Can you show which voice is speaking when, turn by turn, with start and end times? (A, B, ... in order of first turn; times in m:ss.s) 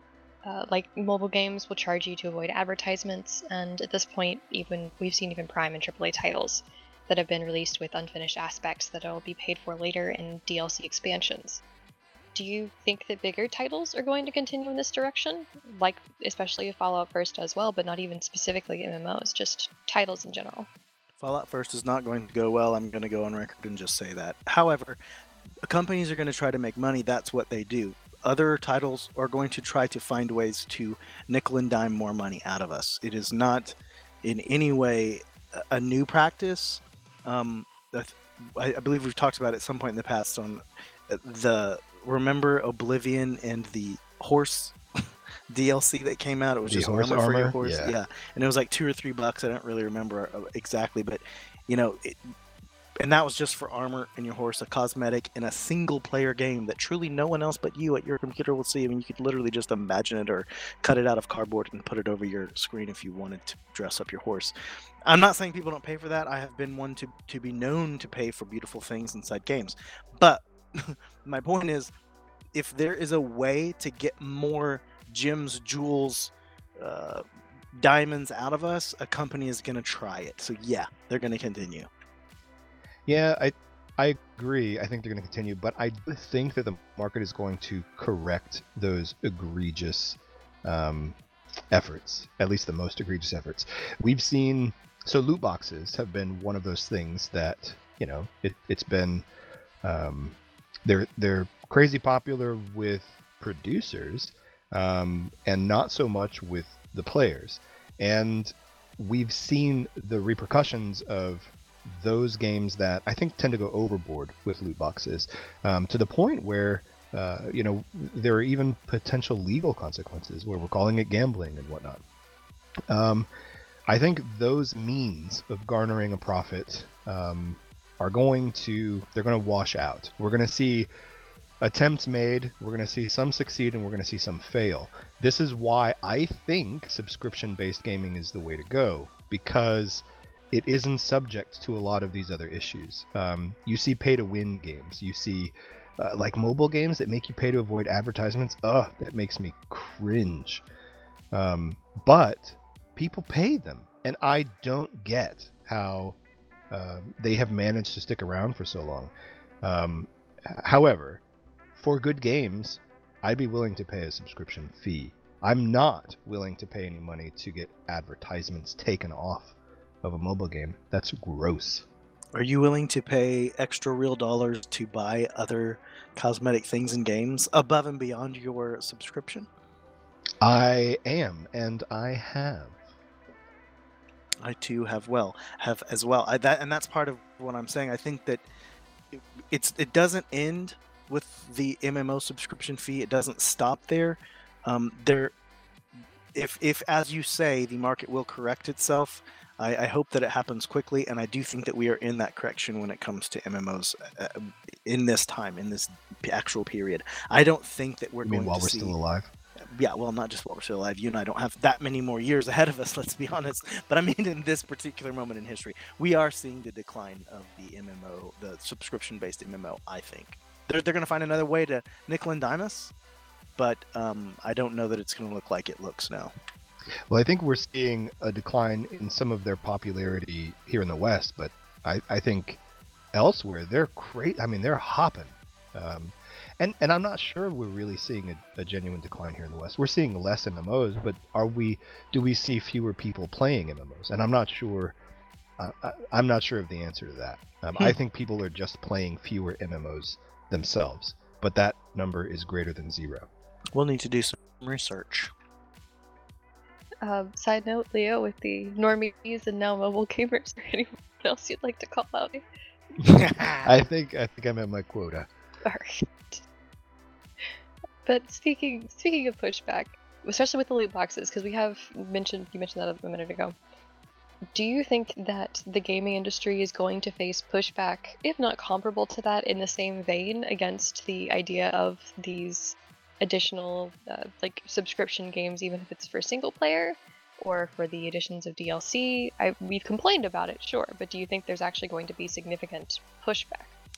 0:00.4-0:11.6 A
0:12.3-0:20.7 A
0:21.2-0:25.0 B
0:25.6-0:44.8 B
0:45.5-0:52.3 B
0:46.7-0:47.9 C
0:53.0-1:04.5 B
1:05.0-1:11.9 B
1:12.5-1:17.2 B
1:17.7-1:21.9 B
1:23.0-1:31.2 C
1:31.7-1:39.2 C
1:39.8-2:02.0 C
2:02.9-2:03.3 C
2:03.9-2:10.9 C
2:11.6-2:30.6 C
2:31.3-2:36.2 C
2:36.7-2:41.2 C
2:41.7-2:51.8 C
2:52.3-2:59.5 B
3:00.4-3:02.8 C
3:04.4-3:08.4 B
3:09.1-3:15.3 B
3:16.3-3:28.9 B
3:28.2-3:29.3 C
3:29.7-3:42.9 B
3:43.6-3:46.3 B
3:47.1-3:52.6 C
3:53.1-4:05.0 C
4:05.6-4:13.3 C
4:13.7-4:15.3 B
4:17.0-4:22.4 A
4:23.0-4:23.7 B
4:23.6-4:25.3 C
4:25.6-4:26.4 A
4:28.0-4:33.5 A
4:34.5-4:53.7 A